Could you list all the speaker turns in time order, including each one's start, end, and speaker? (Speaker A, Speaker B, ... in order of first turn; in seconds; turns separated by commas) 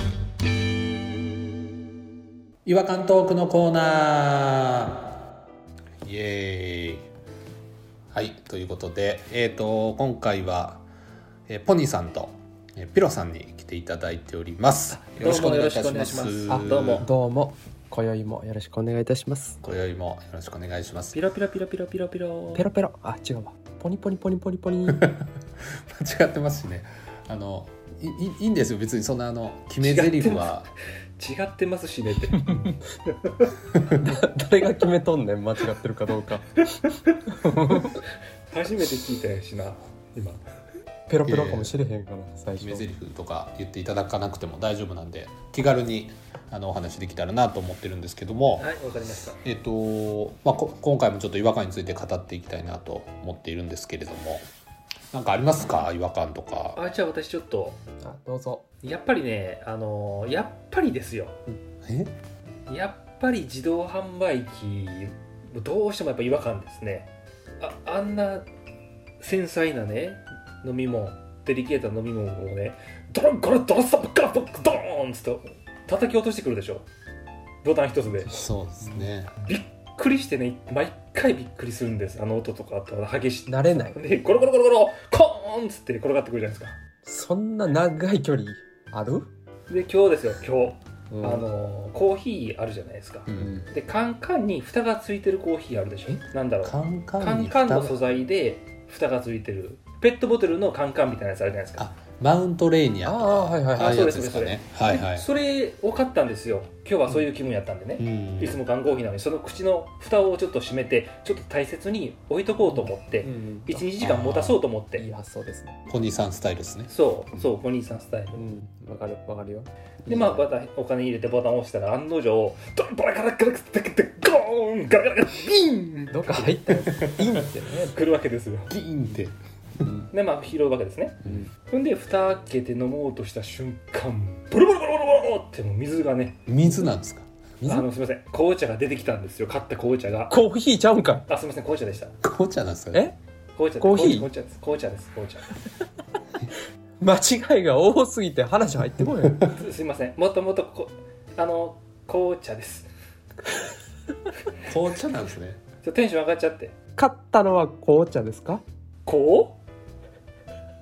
Speaker A: 2.7-5.1, Speaker A: 6.0-7.1, Speaker A: 8.1-10.8, Speaker A: 11.5-17.1, Speaker B: 14.9-17.1, Speaker C: 16.5-19.6, Speaker A: 19.6-21.2, Speaker B: 21.1-22.7, Speaker C: 22.6-25.0, Speaker A: 24.9-30.7, Speaker B: 29.8-30.6, Speaker B: 31.2-33.5, Speaker C: 33.9-36.6, Speaker B: 36.8-40.4, Speaker C: 37.4-37.9, Speaker C: 41.1-42.9, Speaker A: 41.2-41.8, Speaker A: 42.6-48.7, Speaker B: 48.6-49.4, Speaker A: 49.4-54.5, Speaker A: 55.1-56.8, Speaker B: 56.8-57.8, Speaker C: 58.0-58.6, Speaker B: 58.8-61.4, Speaker A: 61.5-62.1, Speaker B: 62.7-68.5, Speaker B: 69.2-76.9, Speaker B: 77.6-78.3, Speaker A: 78.3-79.3, Speaker B: 79.4-86.8, Speaker C: 83.5-84.0, Speaker C: 87.0-89.3, Speaker B: 89.7-101.9, Speaker C: 91.1-91.5, Speaker A: 93.3-93.7, Speaker A: 96.6-98.0, Speaker A: 101.8-105.2, Speaker C: 103.0-104.0, Speaker B: 103.8-115.1, Speaker A: 108.0-108.6, Speaker C: 112.7-113.9, Speaker A: 114.0-114.6, Speaker C: 115.0-115.8, Speaker A: 115.9-116.9, Speaker B: 116.9-118.4, Speaker C: 118.3-120.5, Speaker B: 120.1-127.3, Speaker C: 126.1-128.0, Speaker B: 127.9-128.7, Speaker A: 128.7-129.9, Speaker B: 130.1-136.5, Speaker C: 131.2-131.5, Speaker A: 136.5-137.8, Speaker B: 137.7-140.3, Speaker C: 140.3-141.3, Speaker B: 141.3-142.2, Speaker A: 142.2-143.0, Speaker B: 143.5-145.5, Speaker C: 143.8-144.3, Speaker C: 147.0-149.4, Speaker B: 149.4-152.9, Speaker A: 154.6-155.6, Speaker B: 155.8-156.8, Speaker C: 157.0-158.6, Speaker B: 159.1-159.6